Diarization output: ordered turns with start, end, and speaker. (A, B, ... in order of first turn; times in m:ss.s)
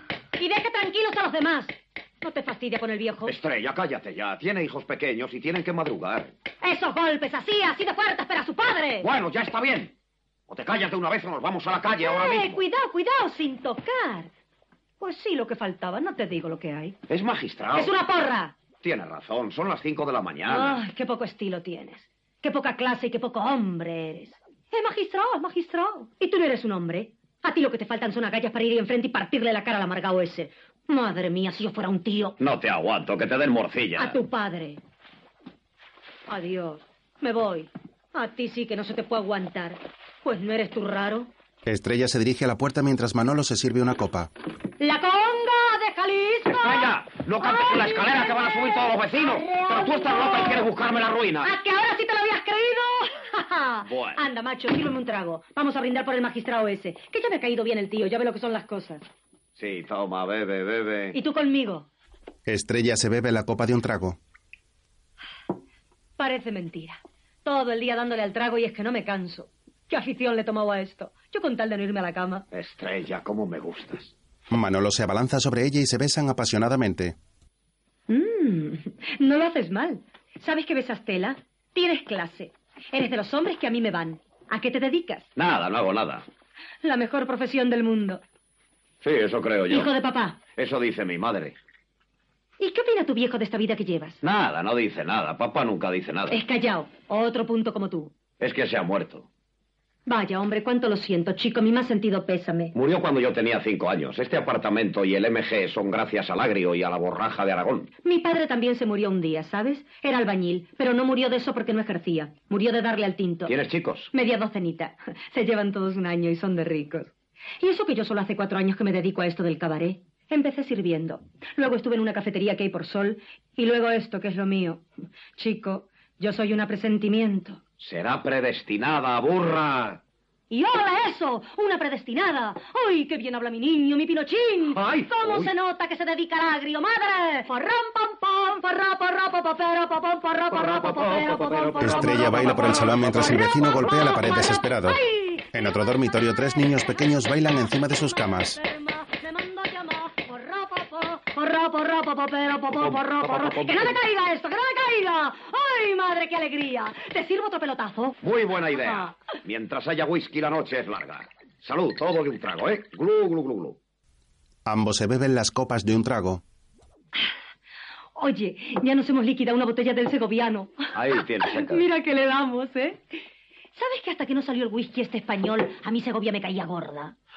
0:00.4-0:03.3 A
0:03.2-0:06.3 B
0:06.6-0:09.1 A
0:09.0-0:09.9 B
0:10.5-0:12.6 B
0:12.0-0:14.3 A
0:15.0-0:17.0 A
0:17.1-0:17.9 B
0:17.7-0:18.5 A
0:18.8-0:20.8 B
0:20.5-0:32.4 A
0:32.4-0:34.2 B
0:34.0-0:34.8 A
0:36.3-0:41.3 A
0:41.6-0:44.3 C
0:44.8-0:50.7 A
0:46.6-0:51.5 B
0:51.4-0:59.0 A
0:53.8-0:54.2 B
0:59.6-1:01.2 B
1:01.1-1:01.9 A
1:02.4-1:04.2 C
1:06.2-1:12.4 A
1:12.5-1:14.1 B
1:14.5-1:17.2 C
1:18.1-1:25.3 A
1:25.4-1:26.2 B
1:26.8-1:28.2 A
1:29.0-1:29.9 B
1:29.7-1:30.4 A
1:30.6-1:31.6 B
1:32.6-1:34.2 A
1:34.2-1:36.4 B
1:36.3-1:38.1 A
1:38.4-1:39.3 B
1:40.1-1:42.7 A
1:42.7-1:47.9 B
1:48.0-1:53.5 A
1:53.4-1:54.1 B
1:54.1-2:04.8 A
2:05.4-2:07.6 A
2:07.8-2:10.0 B
2:10.5-2:25.4 A
2:14.7-2:15.5 B
2:20.5-2:23.6 B
2:21.8-2:25.0 C
2:25.5-2:28.6 C
2:28.5-2:38.2 A
2:32.7-2:34.0 B
2:38.2-2:43.8 B
2:44.6-2:46.4 C
2:48.2-2:53.0 A
2:50.9-2:51.8 B
2:53.7-2:57.1 A